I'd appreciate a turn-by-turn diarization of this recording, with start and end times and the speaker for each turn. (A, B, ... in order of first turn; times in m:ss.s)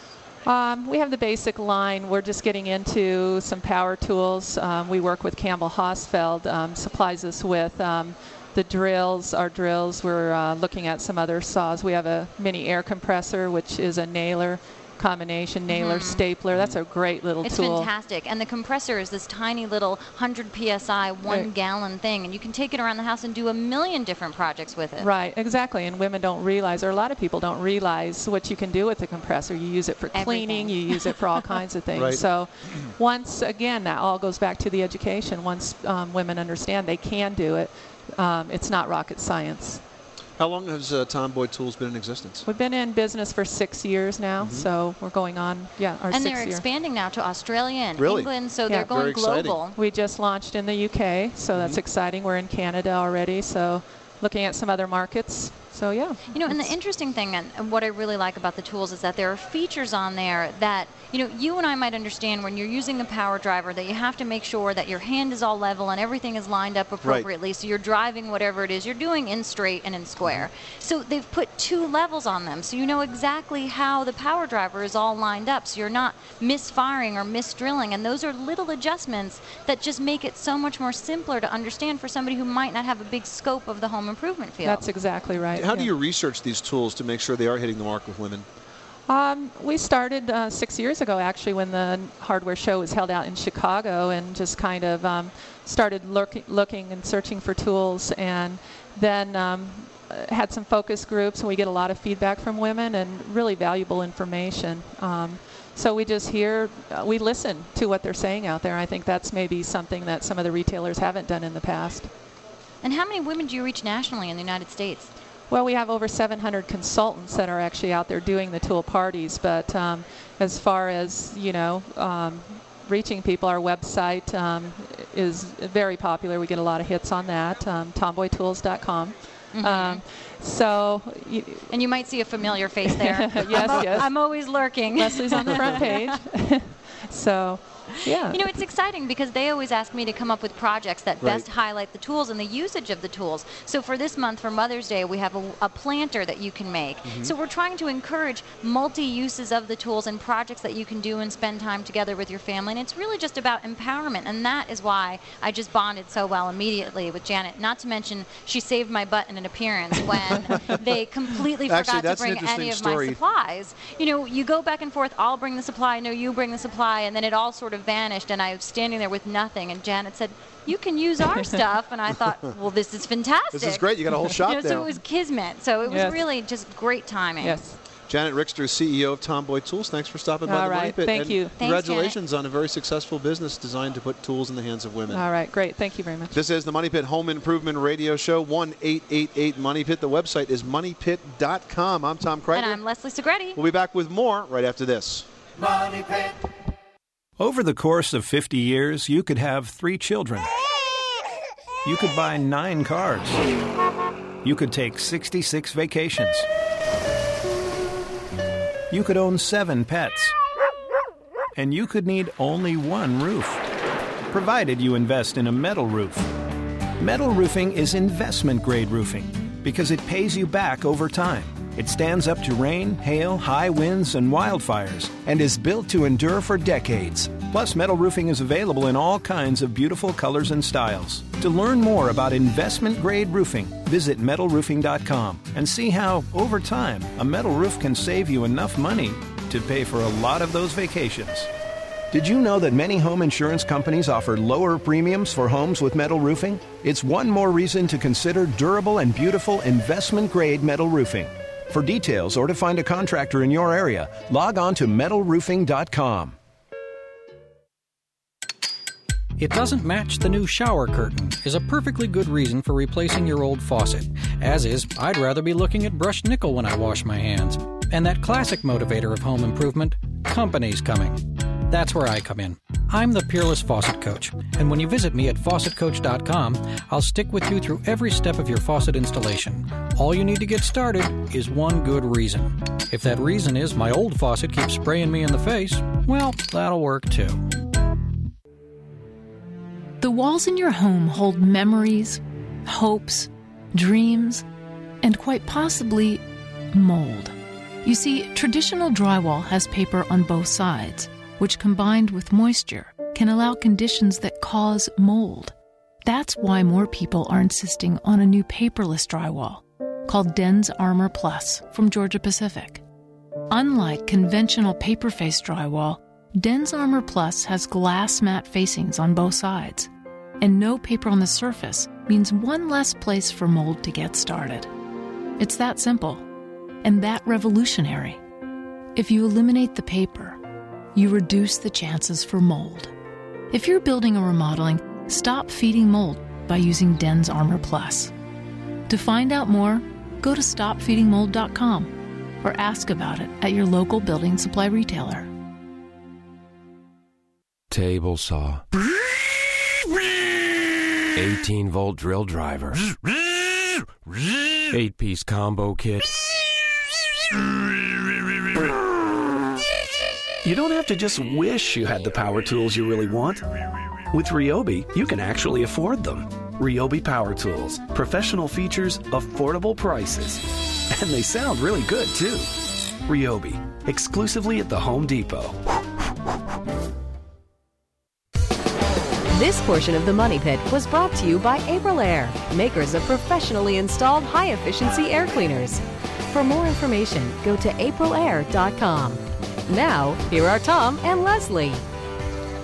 0:00.4-0:17.9 A
0:15.7-0:16.2 B
0:17.4-0:25.1 B
0:21.2-0:21.5 A
0:25.0-0:39.8 A
0:30.1-0:31.0 B
0:31.9-0:32.2 C
0:40.4-0:42.4 C
0:42.4-0:46.6 A
0:44.4-0:44.7 C
0:46.1-0:49.8 B
0:48.0-0:48.3 C
0:48.9-0:49.6 C
0:49.7-0:56.7 A
0:51.5-0:51.8 C
0:56.3-1:24.8 B
1:10.2-1:10.5 C
1:24.6-1:25.9 A
1:25.5-1:28.4 C
1:29.1-1:52.1 A
1:52.8-1:55.1 B
1:55.5-2:11.7 A
2:09.5-2:10.0 B
2:11.7-2:16.1 B
2:12.8-2:14.1 A
2:14.9-2:18.6 A
2:18.2-2:57.6 B
2:21.2-2:21.4 C
2:27.0-2:27.3 C
2:41.7-2:43.2 C
2:51.2-2:51.6 A
2:53.5-2:54.9 C
2:55.8-2:56.2 A
2:57.4-2:57.8 A
2:58.1-3:05.3 C
3:00.4-3:01.6 A
3:01.6-3:02.2 B
3:05.1-3:06.4 A
3:06.3-3:12.8 C
3:12.5-3:13.6 B
3:13.6-3:15.3 C
3:17.4-3:20.5 D
3:21.8-3:23.4 D
3:24.4-3:26.4 D
3:28.9-3:30.3 D
3:31.6-3:33.6 D
3:34.3-3:36.3 D
3:37.0-4:01.5 D
4:02.1-4:16.4 D
4:19.4-4:47.5 E
4:50.0-4:54.4 F
4:55.0-5:12.8 F
5:13.5-5:24.7 F
5:25.4-5:26.3 F
5:26.8-5:28.2 F
5:28.9-5:30.4 F
5:30.9-5:32.9 F
5:33.5-5:38.1 F
5:38.9-5:45.3 F
5:47.7-5:48.6 G
5:51.1-5:52.9 G
5:54.7-5:56.3 G
6:00.4-6:03.4 H
6:04.1-6:12.5 H
6:13.1-6:15.6 H
6:19.3-6:31.8 I